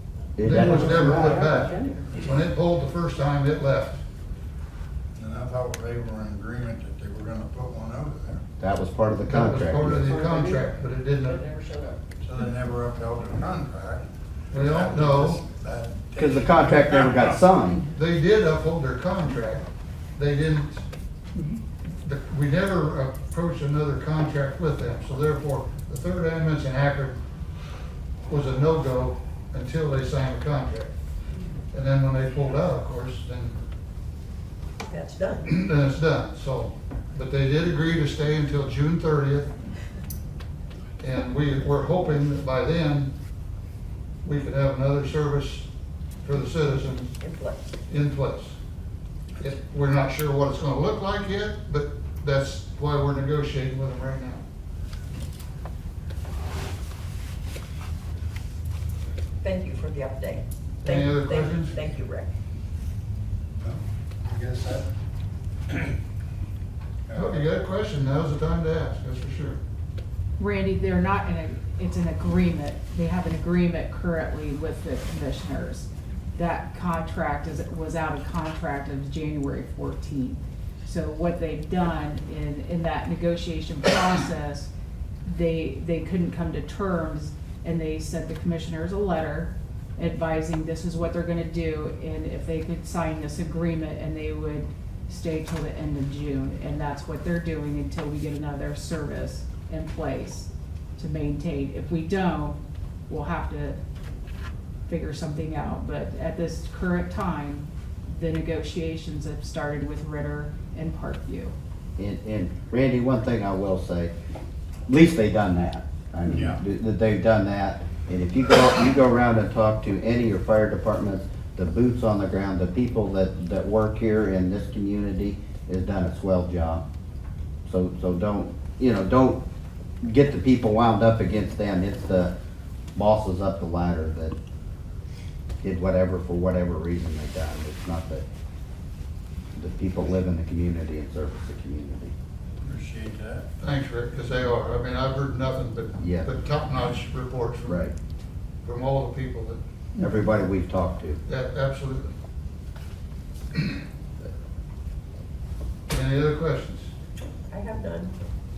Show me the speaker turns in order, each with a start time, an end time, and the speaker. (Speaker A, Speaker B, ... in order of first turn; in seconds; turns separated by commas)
Speaker A: 0.4-1.5, Speaker B: 0.4-4.0, Speaker C: 1.4-2.0, Speaker D: 1.5-1.9, Speaker E: 5.2-8.4, Speaker A: 8.6-10.1, Speaker B: 9.2-11.4, Speaker D: 10.1-12.0, Speaker E: 12.2-17.4, Speaker B: 14.5-15.4, Speaker A: 16.1-17.8, Speaker B: 17.8-20.8, Speaker B: 22.0-27.2, Speaker B: 28.3-30.9, Speaker B: 31.7-33.5, Speaker D: 34.9-35.5, Speaker B: 35.5-39.5, Speaker B: 41.0-43.1, Speaker B: 44.2-45.7, Speaker B: 46.2-47.1, Speaker D: 47.2-47.7, Speaker B: 47.9-48.6, Speaker B: 49.4-54.4, Speaker D: 59.4-62.3, Speaker B: 60.8-61.8, Speaker E: 63.6-64.9, Speaker E: 67.1-67.5, Speaker B: 67.1-69.6, Speaker C: 70.4-84.7, Speaker C: 85.3-103.8, Speaker C: 104.9-111.5, Speaker A: 112.0-114.1, Speaker A: 114.9-126.8, Speaker E: 116.2-116.6, Speaker A: 127.7-129.4, Speaker A: 130.0-132.3, Speaker A: 132.9-134.3, Speaker A: 135.6-138.2, Speaker A: 139.5-142.1, Speaker E: 142.6-143.5, Speaker B: 143.6-147.9, Speaker A: 146.0-146.3, Speaker A: 147.7-147.9, Speaker B: 148.6-149.6, Speaker A: 150.0-151.2, Speaker B: 151.3-152.1, Speaker B: 155.9-156.9, Speaker D: 157.5-158.2